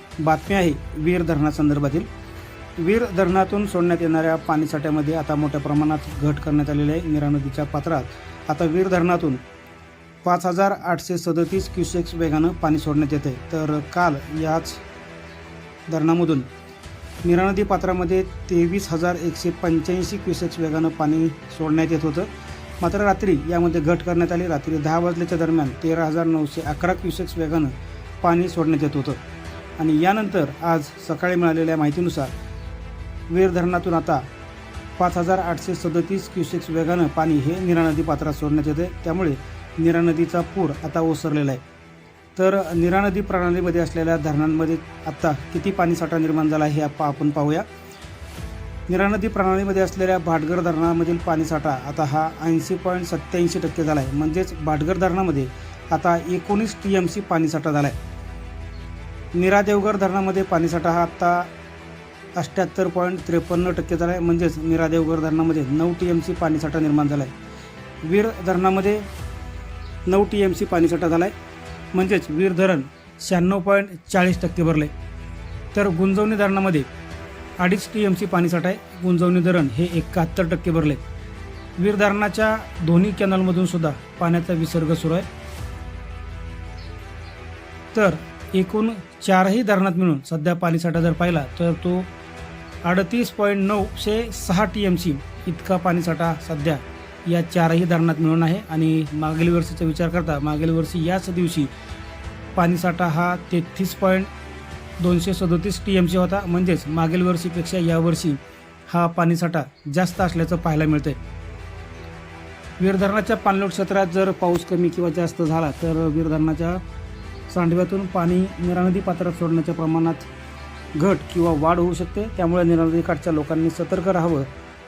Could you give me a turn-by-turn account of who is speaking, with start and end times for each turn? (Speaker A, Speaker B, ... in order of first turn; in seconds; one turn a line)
Speaker A: 0.2-2.1
Speaker A: 2.8-9.4
Speaker A: 10.2-14.8
Speaker A: 15.9-16.5
Speaker A: 17.2-22.3
Speaker A: 22.8-29.2
Speaker A: 29.8-32.3
Speaker A: 33.3-34.2
Speaker A: 35.0-41.6
Speaker A: 42.4-47.7
Speaker A: 48.9-58.0
Speaker A: 59.4-61.5
Speaker A: 62.4-67.3
Speaker A: 68.0-69.1
Speaker A: 70.1-71.3
Speaker A: 71.9-74.9
Speaker A: 75.7-76.9
Speaker A: 77.6-81.0
Speaker A: 81.8-85.3
Speaker A: 87.9-92.1
Speaker A: 92.8-101.7
Speaker A: 102.6-104.3
Speaker A: 105.0-111.2
Speaker A: 112.8-116.8
Speaker A: 117.5-120.3
Speaker A: 121.0-124.5